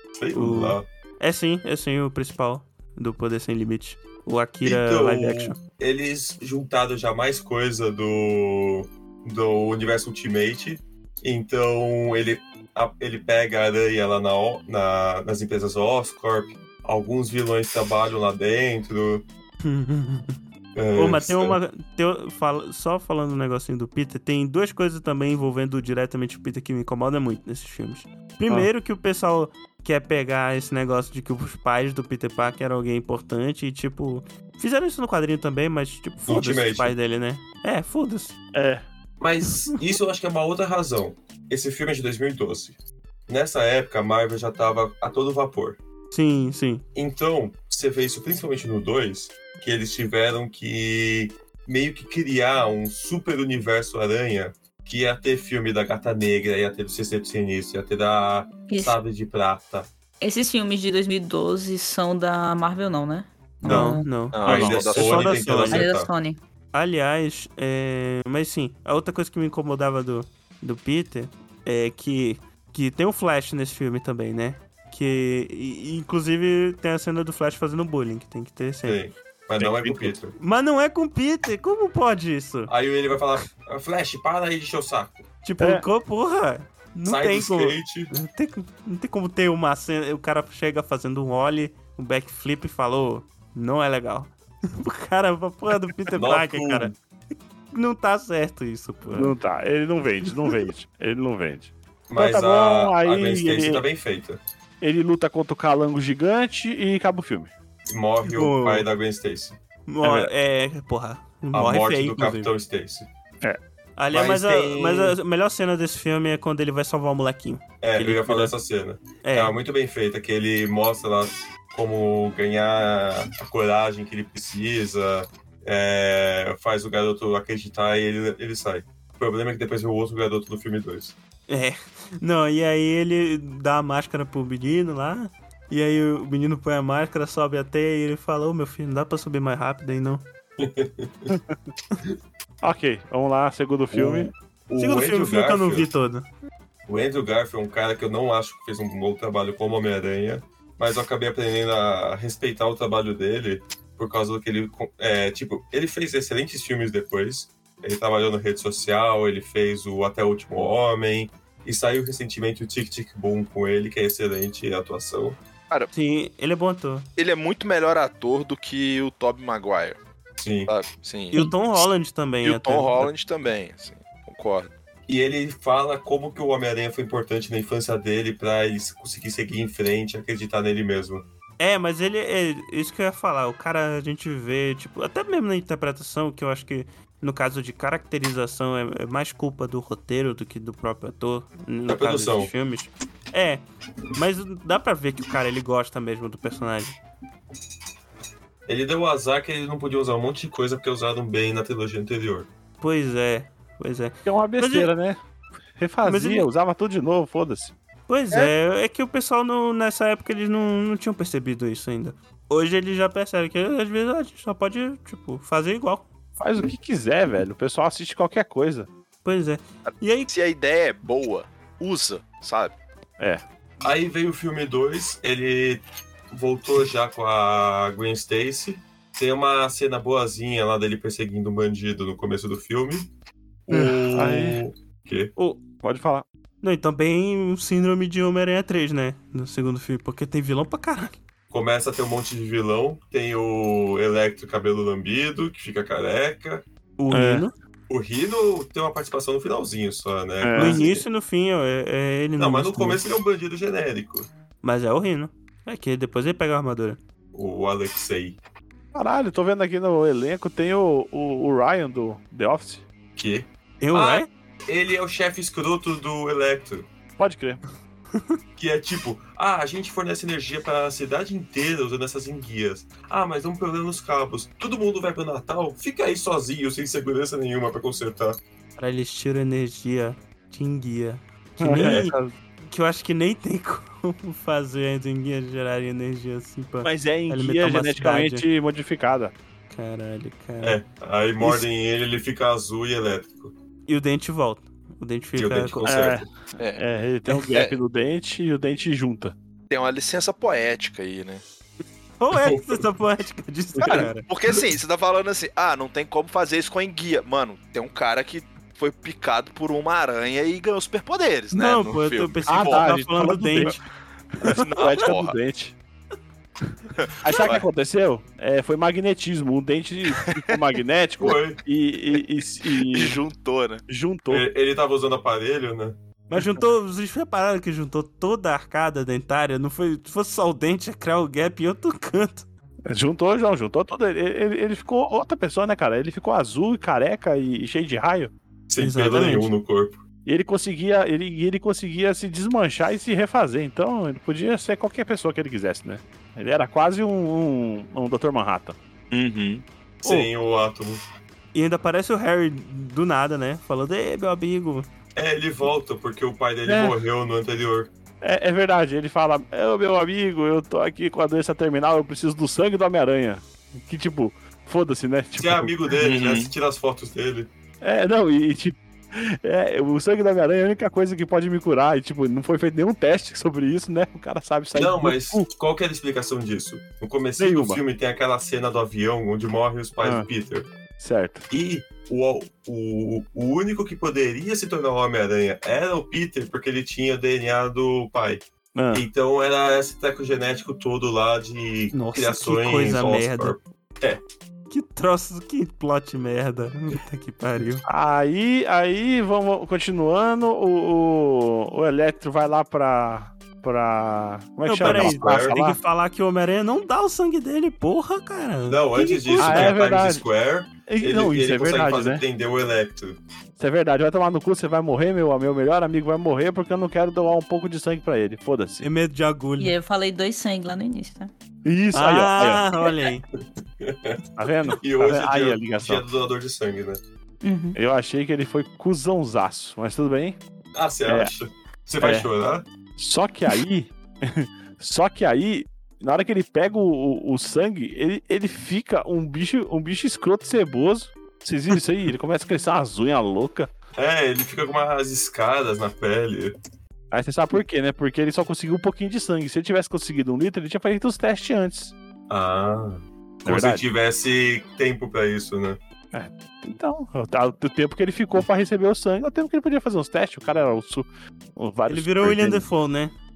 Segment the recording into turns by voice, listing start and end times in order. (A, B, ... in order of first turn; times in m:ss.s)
0:00.2-0:00.9 A
0:00.3-0:05.6 B
0:04.6-0:19.3 A
0:19.6-0:20.4 B
0:20.8-0:21.6 A
0:21.0-0:38.4 B
0:36.3-0:37.0 A
0:38.6-0:38.8 C
0:39.2-0:42.8 A
0:43.3-0:45.8 A
0:46.1-0:46.8 B
0:47.0-0:59.9 A
0:58.7-0:59.0 D
1:00.2-1:04.1 D
1:03.6-1:06.1 A
1:03.6-1:05.9 B
1:04.3-1:05.4 E
1:05.7-1:06.4 D
1:06.7-1:19.0 B
1:18.8-1:20.4 A
1:19.6-1:20.1 C
1:20.4-1:22.7 B
1:22.7-1:25.3 A
1:25.4-1:36.9 B
1:25.6-1:25.8 C
1:27.1-1:28.1 A
1:36.1-1:37.0 A
1:37.7-1:39.4 B
1:39.1-1:43.8 C
1:40.3-1:40.6 B
1:42.1-1:44.4 A
1:44.8-1:47.5 C
1:47.9-1:49.6 A
1:48.2-1:48.9 B
1:49.9-1:52.5 B
1:50.0-1:50.3 C
1:51.5-1:53.1 A
1:54.0-1:58.5 B
1:54.1-1:55.2 A
1:57.8-2:11.2 A
1:59.2-1:59.6 B
2:11.5-2:20.2 B
2:20.6-2:21.3 A
2:22.6-2:24.3 C
2:23.9-2:25.9 A
2:24.8-2:26.3 B
2:26.9-2:45.4 A
2:45.9-2:47.1 B
2:47.2-2:50.0 E
2:50.4-2:50.7 A
2:50.7-2:51.9 E
2:51.3-2:53.1 B
2:52.4-2:54.7 E
2:55.1-3:01.3 A
3:01.6-3:13.6 B
3:11.9-3:12.5 A
3:14.2-3:17.0 B
3:18.7-3:22.5 A
3:22.8-3:24.9 B
3:24.3-3:25.2 C
3:25.7-3:27.8 C
3:26.0-3:26.5 B
3:28.1-3:36.1 B
3:36.4-3:38.9 C
3:39.2-3:40.3 B
3:39.9-3:42.8 E
3:43.8-3:53.1 A
3:53.7-3:55.3 A
3:53.7-3:54.6 C
3:55.8-3:56.2 C
3:56.6-4:01.2 B
4:01.5-4:06.6 A
4:07.0-4:07.5 B
4:07.1-4:07.5 C
4:07.9-4:11.0 A
4:10.4-4:10.8 C
4:10.6-4:13.0 B
4:12.4-4:14.3 A
4:14.6-4:17.0 B
4:17.3-4:18.4 A
4:18.9-4:22.9 C
4:23.2-4:26.9 A
4:23.8-4:24.3 B
4:27.2-4:27.6 C
4:28.6-4:38.4 A
4:38.8-4:48.5 B
4:41.6-4:42.3 C
4:46.8-4:49.3 C
4:49.7-4:50.8 B
4:50.6-4:53.5 A
4:53.9-4:56.1 B
4:55.4-4:56.3 A
4:55.8-4:59.3 C
4:57.5-4:57.8 E
4:59.7-5:01.4 E
5:02.2-5:04.3 B
5:02.3-5:02.8 A
5:03.8-5:04.1 C
5:03.9-5:12.9 E
5:11.5-5:13.8 B
5:12.5-5:13.8 C
5:14.4-5:15.8 C
5:14.4-5:15.4 E
5:17.0-5:17.7 E
5:17.2-5:23.2 C
5:20.2-5:20.6 E
5:21.2-5:21.6 A
5:22.1-5:23.8 E
5:23.9-5:24.5 C
5:24.3-5:26.0 A
5:26.3-5:32.5 B
5:32.9-5:38.3 C
5:38.7-5:40.0 A
5:38.8-5:39.5 B
5:40.2-5:48.8 C
5:49.1-5:49.6 E
5:50.0-5:51.0 A
5:51.5-5:54.9 B
5:55.2-5:57.9 A
5:56.7-5:57.0 C
5:58.2-6:05.7 C
6:05.4-6:07.5 A
6:06.0-6:06.5 E
6:07.8-6:15.5 C
6:14.7-6:20.7 A
6:17.4-6:17.8 C
6:20.0-6:20.3 C
6:21.0-6:21.5 C
6:21.5-6:34.2 A
6:28.8-6:29.1 C
6:31.9-6:33.6 B
6:34.7-6:37.8 B
6:37.9-6:45.8 C
6:44.7-6:49.8 B
6:44.8-6:45.6 A
6:48.7-6:53.2 A
6:49.4-6:50.2 C
6:50.9-6:52.2 C
6:53.6-6:58.9 C
6:58.8-6:59.7 B
6:59.6-7:01.3 D
7:01.6-7:02.9 C
7:01.9-7:03.2 B
7:03.8-7:04.2 A
7:04.4-7:06.0 C
7:04.8-7:07.0 A
7:07.4-7:07.8 D
7:07.8-7:10.4 C
7:10.7-7:12.7 A
7:11.1-7:11.3 C
7:12.0-7:12.3 C
7:13.0-7:23.7 C
7:24.0-7:26.6 A
7:27.1-7:32.0 C
7:32.3-7:35.8 A
7:33.4-7:33.9 C
7:36.1-7:42.7 C
7:41.9-7:43.1 B